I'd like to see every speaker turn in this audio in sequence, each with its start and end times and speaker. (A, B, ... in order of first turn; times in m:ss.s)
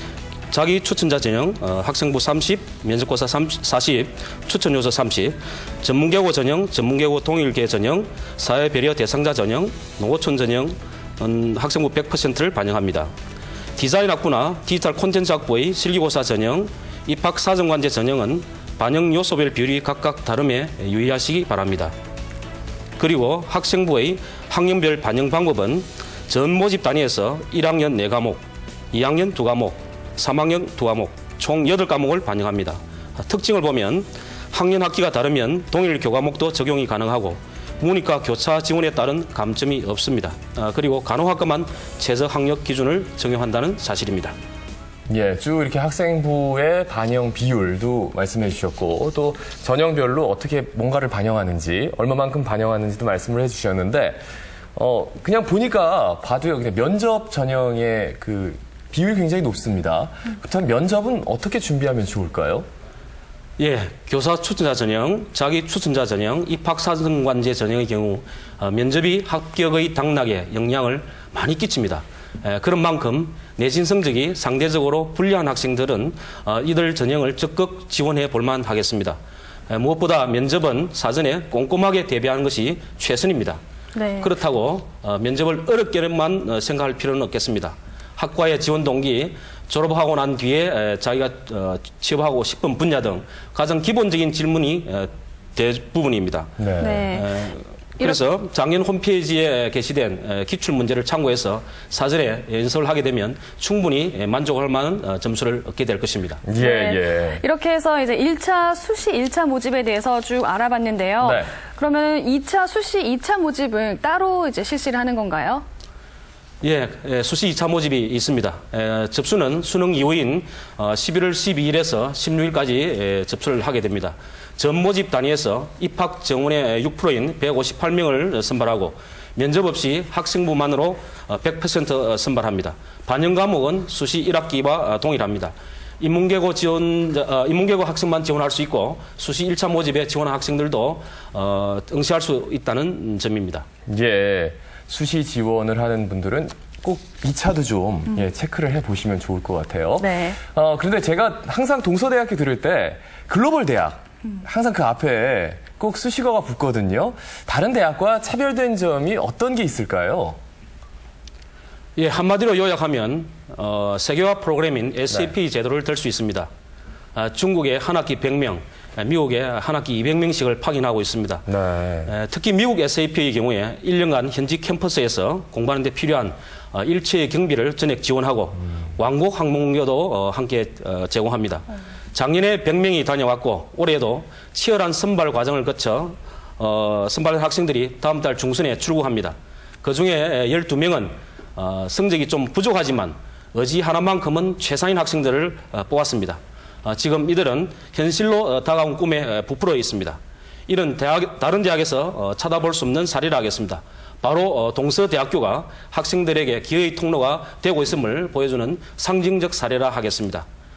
0:00.5-0:13.1 A
0:13.8-0:21.9 A
0:23.0-0:44.4 A
0:45.1-0:54.2 B
0:54.8-1:02.7 B
1:03.6-1:23.6 A
1:24.0-1:24.3 C
1:24.2-1:46.4 A
1:36.6-1:37.1 B
1:36.8-1:37.3 C
1:46.4-1:47.4 B
1:46.6-1:55.6 C
1:51.2-1:51.5 B
1:56.6-2:23.7 A
2:23.9-2:40.4 B
2:30.0-2:30.4 C
2:42.0-2:46.5 A
2:47.2-2:51.5 A
2:51.5-2:52.1 B
2:52.1-3:30.5 A